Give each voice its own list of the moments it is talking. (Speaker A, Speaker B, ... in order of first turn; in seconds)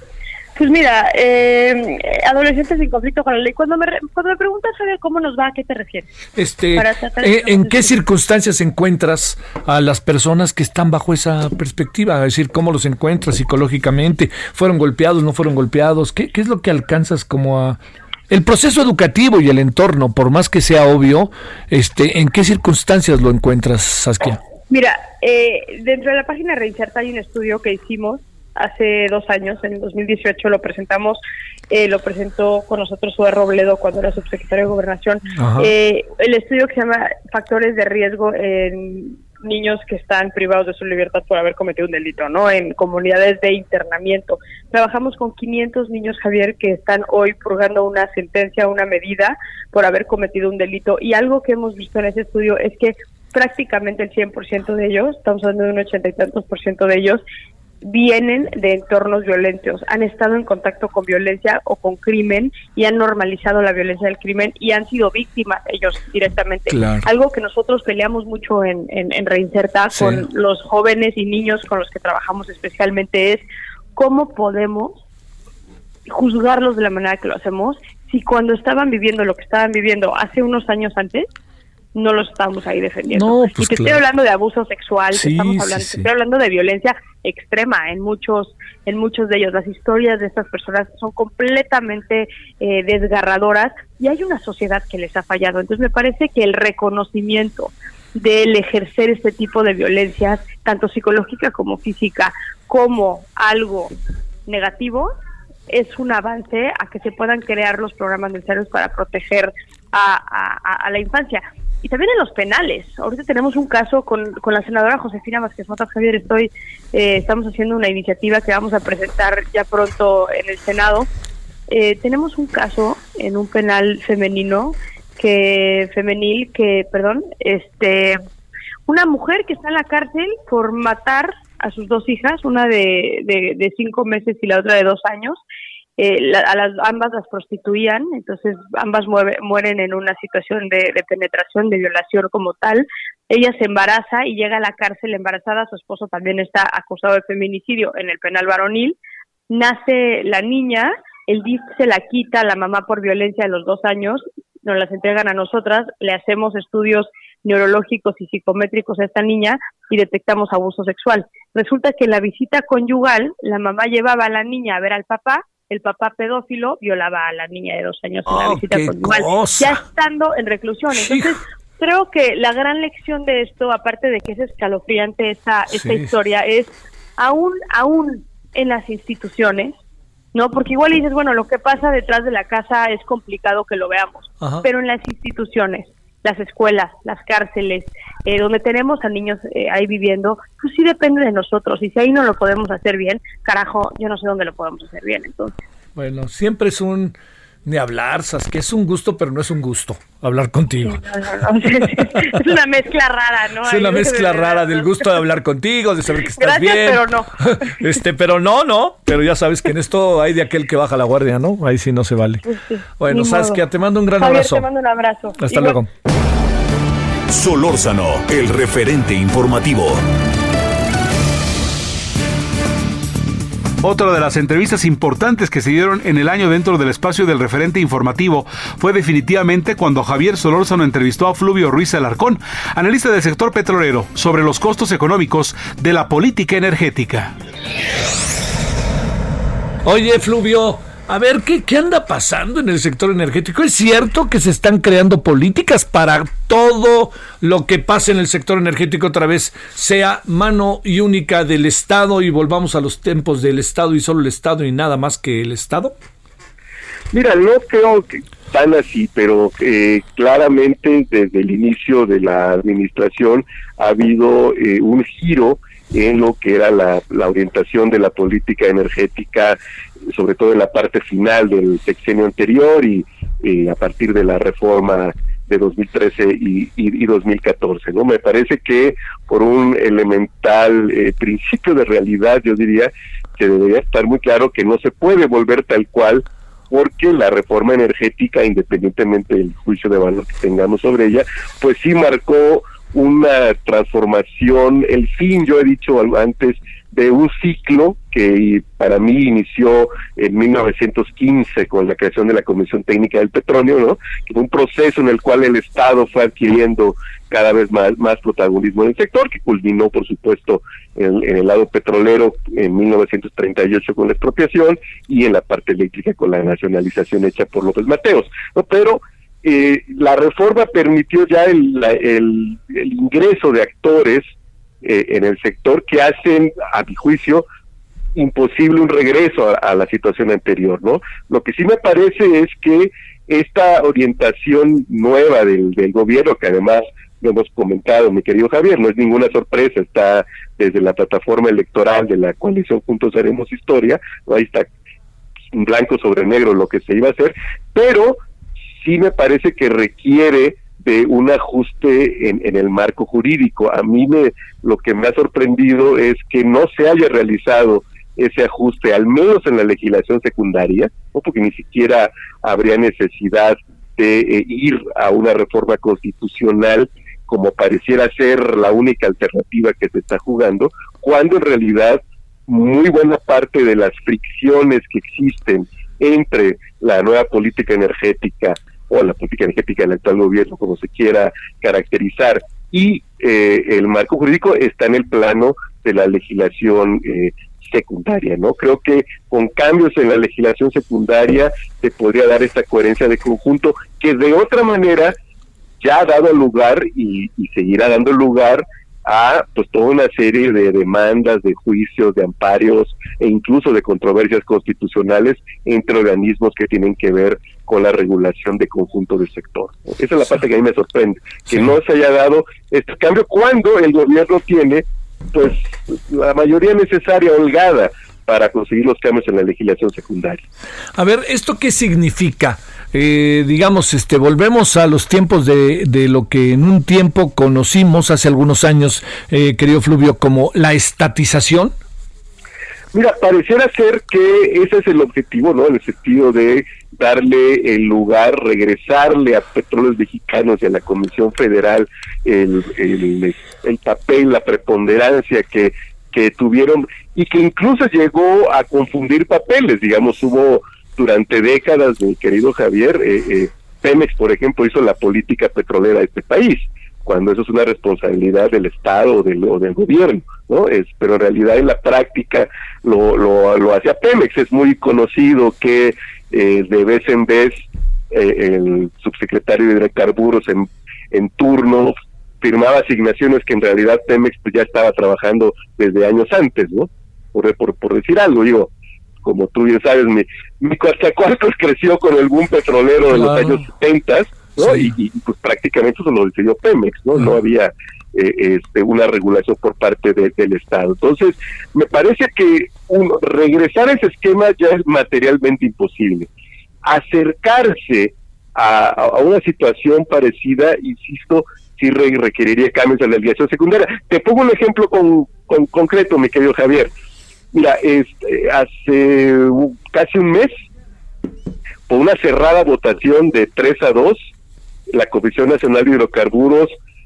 Speaker A: 0.6-6.1, 6.7-8.0, 24.7-31.2, 31.7-57.2, 57.8-73.4, 74.0-75.0, 76.1-81.3, 81.9-103.9, 104.5-105.1, 105.7-121.1, 121.7-128.2, 128.9-135.4, 136.0-149.0, 149.5-179.7, 180.3-195.5, 200.8-205.2, 206.2-207.3, 212.4-213.6, 214.2-215.8
Speaker B: 6.4-17.8, 18.3-24.4, 35.3-35.7, 66.7-67.1, 69.9-70.3, 83.1-84.0, 85.1-86.1, 168.3-169.8, 170.9-171.3, 175.7-176.1, 184.4-184.7, 195.9-201.0, 201.8-202.4, 203.6-212.4, 213.0-214.7, 215.4-215.9, 239.8-255.9, 420.9-431.7, 483.1-483.7, 484.6-484.9
Speaker C: 217.3-220.0
Speaker D: 223.8-237.3
Speaker E: 257.1-269.6, 270.1-324.3, 324.8-327.4, 328.1-344.7, 345.5-348.2, 348.8-395.1, 395.8-420.4, 432.9-478.7, 479.2-496.3, 496.8-506.9, 507.5-510.5, 511.9-514.3, 514.9-516.7